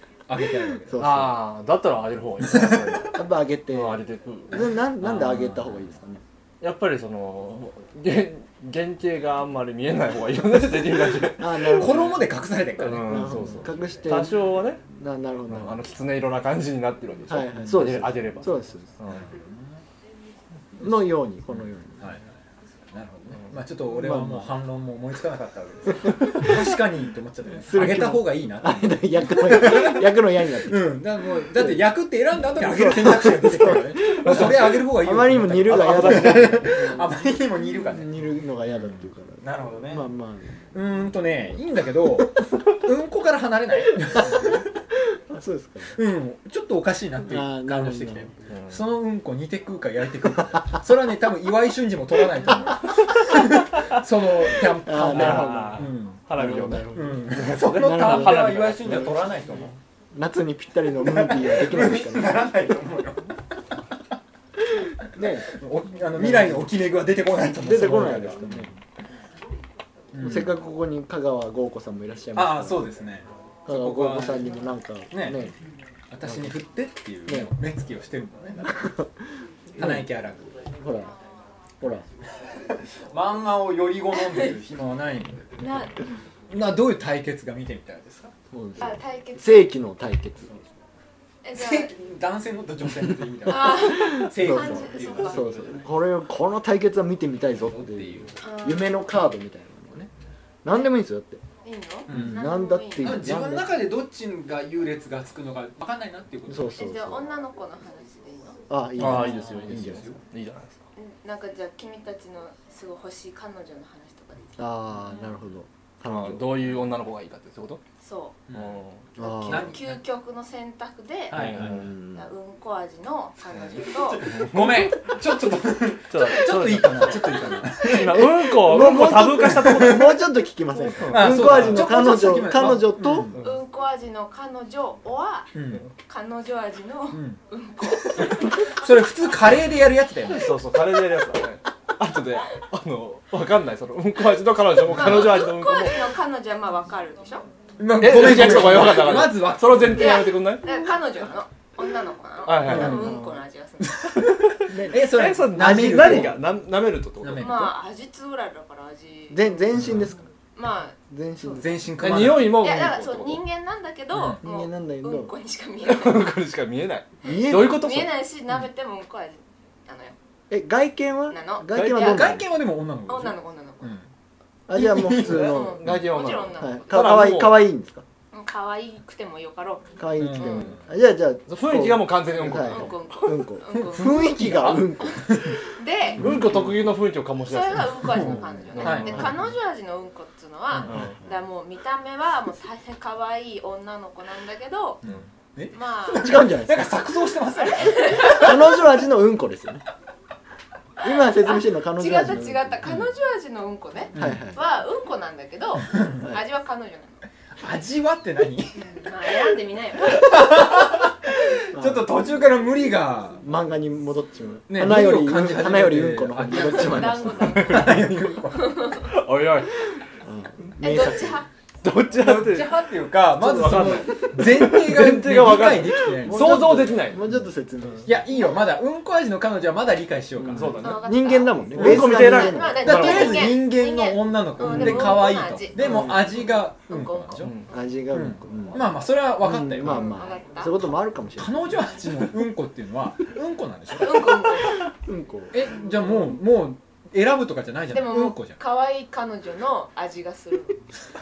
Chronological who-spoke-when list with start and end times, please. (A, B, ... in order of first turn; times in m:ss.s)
0:00.3-0:01.1 A
0:00.9-0:01.4 B
0:01.0-0:05.8 C
0:02.5-0:02.9 A
0:03.1-0:06.2 B
0:06.6-0:11.7 C
0:11.2-0:12.3 B
0:11.6-0:13.5 A
0:12.8-0:14.8 C
0:13.0-0:15.8 B
0:15.5-0:19.2 C
0:17.3-0:18.9 B
0:19.1-0:19.8 A
0:20.8-0:22.0 B
0:22.0-0:38.3 A
0:23.9-0:24.5 B
0:26.0-0:26.5 B
0:27.6-0:30.9 B
0:31.5-0:31.8 B
0:32.5-0:37.2 B
0:34.2-0:34.6 C
0:35.7-0:37.0 C
0:37.9-0:40.7 B
0:38.8-0:40.1 A
0:40.7-0:44.8 A
0:44.2-0:44.6 B
0:45.3-0:46.0 B
0:46.0-0:56.2 A
0:47.3-0:48.3 B
0:48.5-0:48.8 C
0:54.8-0:59.6 B
0:55.0-0:59.1 C
0:56.8-0:59.7 A
1:00.1-1:02.5 B
1:01.0-1:03.3 A
1:05.2-1:05.5 B
1:05.2-1:08.8 A
1:06.2-1:06.7 B
1:07.6-1:08.7 B
1:10.1-1:10.6 A
1:10.2-1:12.9 B
1:12.3-1:14.6 A
1:13.7-1:15.5 B
1:15.1-1:15.5 A
1:16.1-1:18.9 A
1:18.7-1:19.1 B
1:19.8-1:20.1 B
1:19.8-1:20.5 A
1:20.7-1:21.1 B
1:22.7-1:25.6 A
1:25.6-1:26.1 D
1:26.5-1:28.3 A
1:28.5-1:30.5 B
1:28.8-1:29.7 D
1:31.4-1:31.9 D
1:31.6-1:35.9 A
1:33.5-1:35.7 D
1:33.6-1:40.1 B
1:37.7-1:38.4 A
1:38.4-1:39.0 D
1:40.6-1:41.4 B
1:40.7-1:40.9 D
1:41.6-1:43.4 D
1:42.1-1:46.8 A
1:42.1-1:43.8 B
1:46.5-1:47.3 B
1:46.8-1:48.6 D
1:48.7-1:50.2 B
1:49.0-1:50.2 A
1:49.0-1:50.8 C
1:51.0-1:55.3 D
1:54.6-1:56.6 B
1:56.1-1:57.8 C
1:58.0-1:58.4 D
1:58.5-1:58.8 A
1:58.5-1:59.0 C
1:59.2-1:59.8 B
1:59.2-2:01.6 D
1:59.4-2:00.0 A
2:01.3-2:01.8 A
2:01.3-2:01.9 C
2:01.6-2:02.3 B
2:02.1-2:04.4 D
2:03.6-2:08.4 A
2:04.2-2:05.2 C
2:06.1-2:10.1 C
2:08.1-2:13.3 B
2:09.0-2:10.2 A
2:11.0-2:11.8 C
2:11.1-2:13.4 A
2:13.4-2:18.8 D
2:15.5-2:15.9 A
2:17.1-2:17.4 A
2:18.0-2:20.5 A
2:20.3-2:26.1 C
2:24.9-2:27.5 D
2:25.1-2:25.4 A
2:27.8-2:30.2 A
2:28.0-2:30.7 C
2:29.9-2:34.3 D
2:32.4-2:33.1 C
2:32.6-2:33.2 A
2:32.7-2:33.4 B
2:34.0-2:36.4 A
2:34.7-2:36.4 B
2:34.9-2:37.6 C
2:37.2-2:37.7 A
2:37.3-2:40.0 D
2:39.3-2:40.2 B
2:39.8-2:40.1 A
2:40.6-2:41.7 D
2:41.1-2:41.9 B
2:41.6-2:42.7 A
2:42.0-2:43.4 C
2:42.4-2:46.3 D
2:44.1-2:44.4 A
2:44.4-2:45.3 B
2:45.8-2:48.2 C
2:47.2-2:47.9 B
2:47.3-2:50.2 D
2:50.5-2:52.4 B
2:51.3-2:52.3 D
2:51.8-2:54.1 A
2:53.1-2:54.0 D
2:54.7-2:56.0 B
2:54.7-2:55.8 A
2:55.1-2:56.9 D
2:55.6-2:57.7 C
2:56.6-2:58.0 B
2:58.3-3:00.8 D
3:00.0-3:05.6 B
3:00.2-3:00.8 A
3:01.5-3:03.0 C
3:02.6-3:04.5 D
3:03.7-3:05.6 A
3:04.2-3:04.8 C
3:05.1-3:06.2 D
3:06.2-3:06.7 B
3:06.2-3:09.3 C
3:07.4-3:15.0 D
3:08.8-3:09.4 A
3:08.8-3:09.4 B
3:10.9-3:11.2 C
3:15.0-3:18.6 A
3:15.7-3:16.4 D
3:16.1-3:17.1 B
3:17.6-3:18.6 D
3:18.2-3:19.8 B
3:21.0-3:22.8 B
3:21.0-3:27.2 D
3:22.8-3:23.1 A
3:24.1-3:24.5 A
3:24.2-3:24.6 B
3:25.8-3:26.2 A
3:27.6-3:29.3 A
3:28.8-3:30.8 D
3:30.0-3:33.4 A
3:31.7-3:32.1 B
3:33.4-3:37.6 B
3:34.7-3:38.9 A
3:36.5-3:39.1 D
3:37.4-3:38.1 C
3:38.9-3:39.7 C
3:40.2-3:41.4 B
3:40.8-3:41.5 D
3:41.8-3:42.7 C
3:42.1-3:47.3 A
3:43.3-3:47.2 C
3:46.2-3:48.2 B
3:48.0-3:50.9 A
3:50.4-3:53.2 B
3:50.5-3:51.1 C
3:50.8-3:57.7 D
3:51.8-3:53.4 C
3:51.8-3:52.1 A
3:52.8-3:57.6 A
3:54.7-3:55.2 B
3:55.8-3:56.4 B
3:57.4-3:57.7 C
3:57.7-4:01.7 B
3:58.1-4:00.2 A
3:59.8-4:00.8 D
4:01.4-4:04.6 A
4:03.9-4:04.9 D
4:04.9-4:05.5 B
4:05.5-4:08.6 A
4:07.9-4:10.8 D